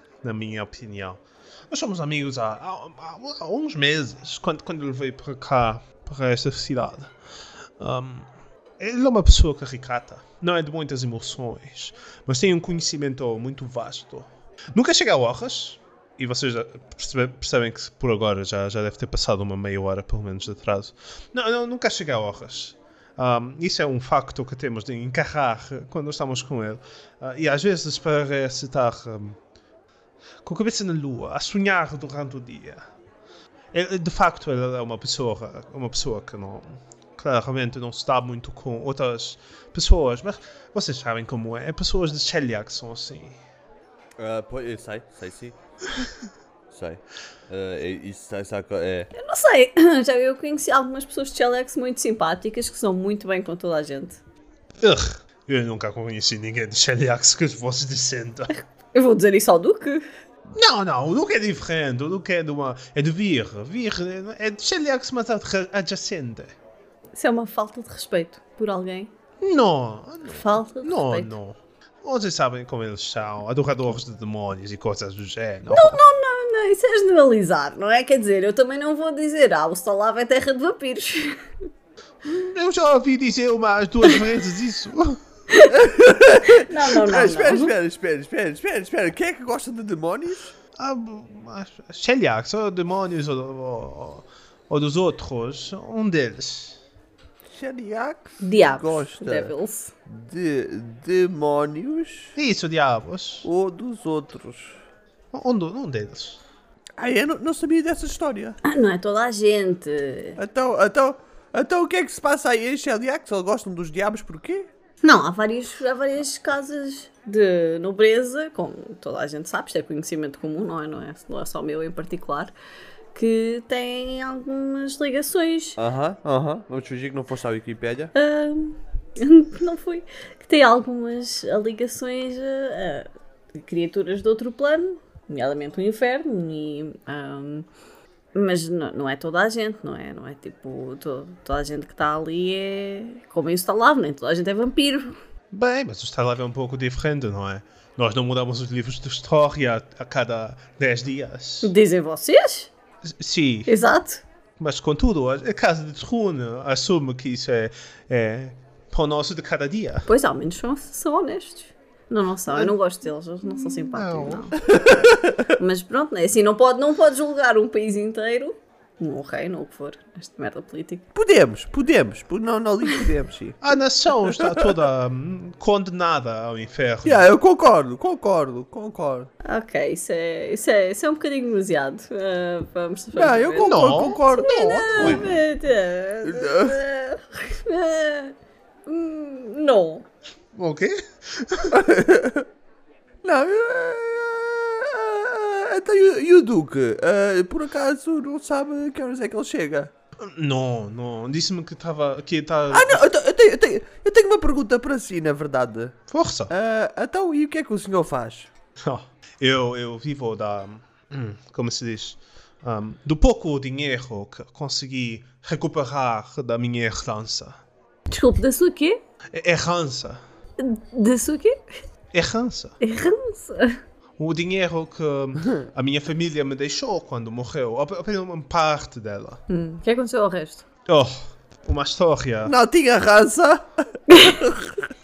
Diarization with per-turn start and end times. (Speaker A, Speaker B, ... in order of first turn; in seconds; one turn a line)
Speaker A: 0.2-7.1
Speaker A: 7.8-29.4
Speaker A: 30.4-32.8
Speaker A: 33.7-43.4
Speaker B: 44.2-45.5
Speaker B: 46.7-49.1
Speaker C: 49.1-54.2
Speaker A: 54.8-58.5
Speaker C: 58.5-60.0
Speaker A: 60.5-66.5
Speaker C: 67.1-69.1
Speaker A: 69.4-76.0
Speaker C: 70.3-71.3
Speaker C: 75.7-81.4
Speaker A: 82.2-85.2
Speaker B: 85.7-90.5
Speaker C: 86.5-87.7
Speaker A: 90.8-96.8
Speaker B: 97.5-99.5
Speaker C: 98.4-99.9
Speaker B: 100.1-102.3
Speaker A: 102.3-103.5
Speaker B: 103.4-104.8
Speaker A: 105.3-106.4
Speaker B: 107.0-108.6
Speaker C: 108.6-110.4
Speaker B: 110.4-114.7
Speaker C: 115.0-122.5
Speaker C: 123.1-125.8
Speaker B: 125.8-128.1
Speaker C: 128.1-137.7
Speaker C: 138.3-145.2
Speaker A: 145.5-151.7
Speaker C: 151.6-152.7
Speaker A: 153.0-153.7
Speaker C: 153.7-154.2
Speaker A: 154.6-160.1
Speaker C: 160.1-164.7
Speaker A: 163.4-164.6
Speaker B: 164.7-165.4
Speaker C: 165.5-171.0
Speaker B: 171.1-173.6
Speaker A: 173.6-177.3
Speaker B: 174.3-174.7
Speaker B: 177.0-179.3
Speaker C: 179.4-188.3
Speaker B: 183.2-185.3
Speaker A: 183.6-185.3
Speaker B: 186.2-186.8
Speaker C: 188.8-190.1
Speaker A: 190.5-191.8
Speaker B: 191.7-192.4
Speaker B: 193.2-199.9
Speaker A: 200.2-203.0
Speaker B: 202.7-206.0
Speaker A: 206.1-206.5
Speaker B: 206.5-208.5
Speaker A: 208.8-217.6
Speaker C: 218.1-219.0
Speaker A: 219.3-220.2
Speaker C: 220.6-221.8
Speaker A: 222.1-222.8
Speaker C: 222.8-223.8
Speaker A: 224.2-229.4
Speaker C: 229.5-230.6
Speaker A: 230.8-232.5
Speaker B: 232.4-234.8
Speaker C: 234.1-234.4